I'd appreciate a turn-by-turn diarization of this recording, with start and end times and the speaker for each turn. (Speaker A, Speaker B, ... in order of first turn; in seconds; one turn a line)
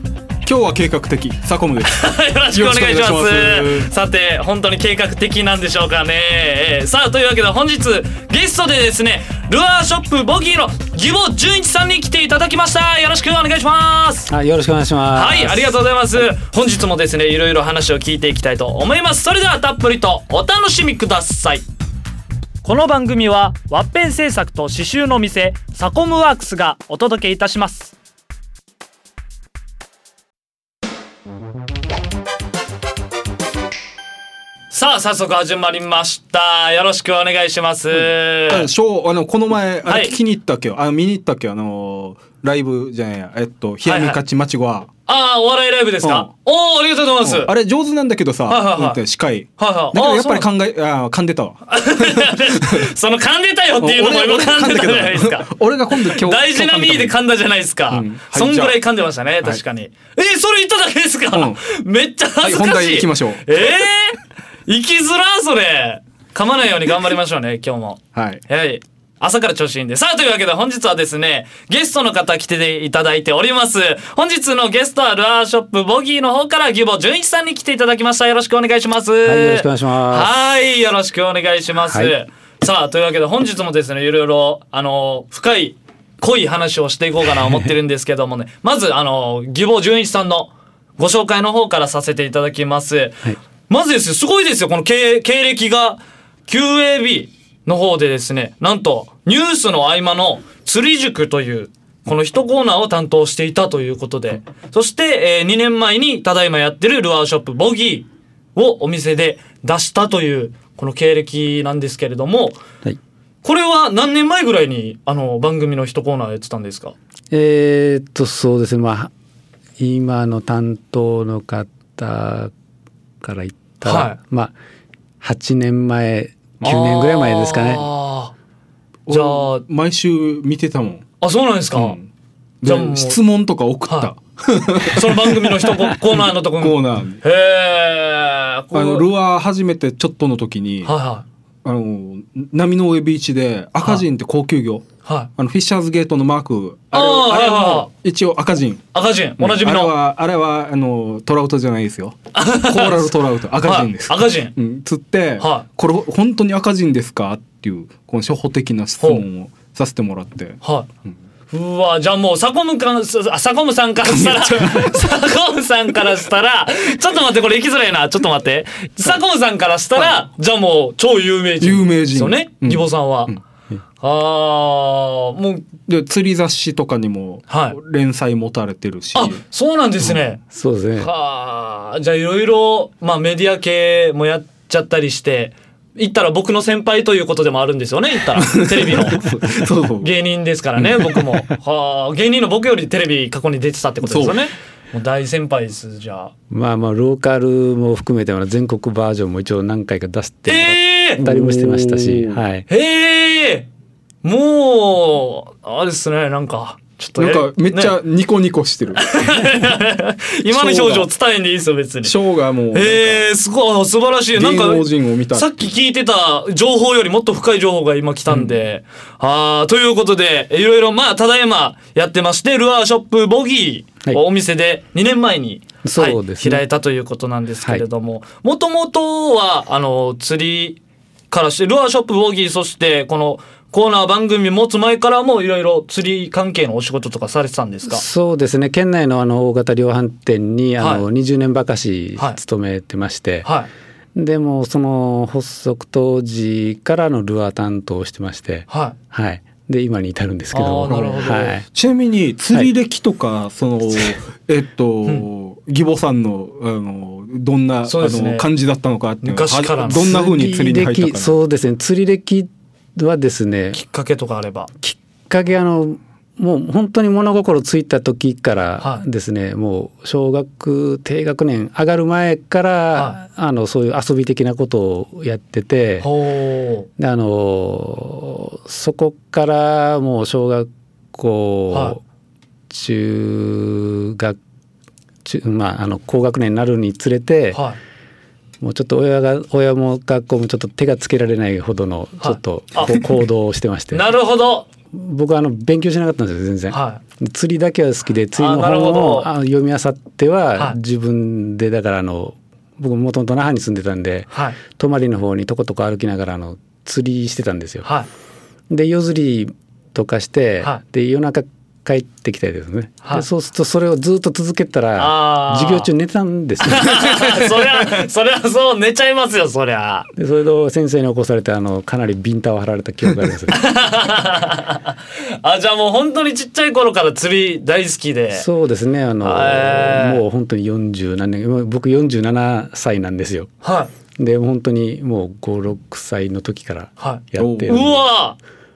Speaker A: 0.5-3.9
Speaker B: 1.8-14.3
Speaker C: 14.3-15.8
Speaker B: 15.2-21.6
Speaker B: 22.6-27.9
Speaker B: 34.7-38.7
Speaker A: 38.5-44.9
Speaker B: 39.9-40.1
Speaker B: 43.8-44.2
Speaker B: 45.1-47.5
Speaker A: 46.0-46.3
Speaker A: 47.2-52.9
Speaker B: 48.5-49.0
Speaker B: 49.6-50.5
Speaker B: 51.7-112.6
Speaker A: 53.8-57.2
Speaker A: 57.9-58.8
Speaker A: 61.3-61.6
Speaker A: 62.4-63.9
Speaker A: 68.2-68.4
Speaker C: 79.2-80.3
Speaker C: 81.9-82.1
Speaker B: 113.4-117.0
Speaker C: 117.3-119.1
Speaker C: 119.8-122.5
Speaker C: 123.2-124.5
Speaker B: 123.8-124.2
Speaker C: 125.2-127.9
Speaker B: 126.6-128.3
Speaker A: 129.1-131.1
Speaker B: 129.1-129.7
Speaker B: 131.2-132.0
Speaker A: 131.8-132.1
Speaker A: 132.6-137.2
Speaker B: 132.7-133.2
Speaker B: 134.8-139.1
Speaker A: 138.7-140.9
Speaker B: 140.8-141.2
Speaker A: 141.6-161.2
Speaker B: 145.0-145.3
Speaker B: 146.9-147.9
Speaker B: 148.9-149.9
Speaker B: 152.3-154.5
Speaker B: 155.4-155.7
Speaker B: 160.6-160.9
Speaker B: 161.5-173.3
Speaker A: 164.0-165.1
Speaker A: 171.6-173.4
Speaker B: 174.0-175.7
Speaker A: 175.9-179.4
Speaker B: 177.5-177.8
Speaker B: 179.1-180.4
Speaker C: 180.5-181.1
Speaker B: 181.0-189.3
Speaker A: 188.4-190.1
Speaker B: 190.0-196.3
Speaker A: 190.8-191.2
Speaker A: 194.0-194.4
Speaker C: 196.5-202.7
Speaker B: 200.5-201.2
Speaker A: 201.2-202.4
Speaker B: 202.7-203.7
Speaker B: 204.2-207.9
Speaker A: 207.2-209.2
Speaker B: 209.0-212.1
Speaker A: 210.5-211.1
Speaker A: 212.0-213.3
Speaker B: 212.7-230.8
Speaker A: 214.3-215.6
Speaker C: 225.8-226.6
Speaker B: 231.3-238.0
Speaker C: 237.9-243.5
Speaker B: 240.8-241.1
Speaker B: 243.4-243.7
Speaker C: 244.2-251.7
Speaker B: 248.7-249.0
Speaker B: 250.5-251.5
Speaker A: 250.9-261.4
Speaker B: 257.9-258.5
Speaker B: 259.2-260.2
Speaker C: 259.9-263.8
Speaker B: 263.7-264.7
Speaker C: 264.8-276.1
Speaker B: 276.0-276.9
Speaker C: 277.0-282.0
Speaker C: 282.7-284.4
Speaker C: 285.2-287.6
Speaker B: 287.5-287.8
Speaker C: 288.6-294.1
Speaker B: 292.2-293.1
Speaker B: 293.9-294.7
Speaker C: 294.9-307.9
Speaker B: 296.7-297.0
Speaker B: 298.4-299.3
Speaker B: 304.3-304.6
Speaker C: 308.7-317.4
Speaker B: 315.0-315.9
Speaker B: 316.6-320.1
Speaker C: 320.2-323.6
Speaker B: 323.5-328.4
Speaker C: 328.3-333.5
Speaker B: 329.2-330.2
Speaker B: 333.6-333.9
Speaker C: 334.2-337.9
Speaker B: 337.0-338.4
Speaker A: 337.4-338.0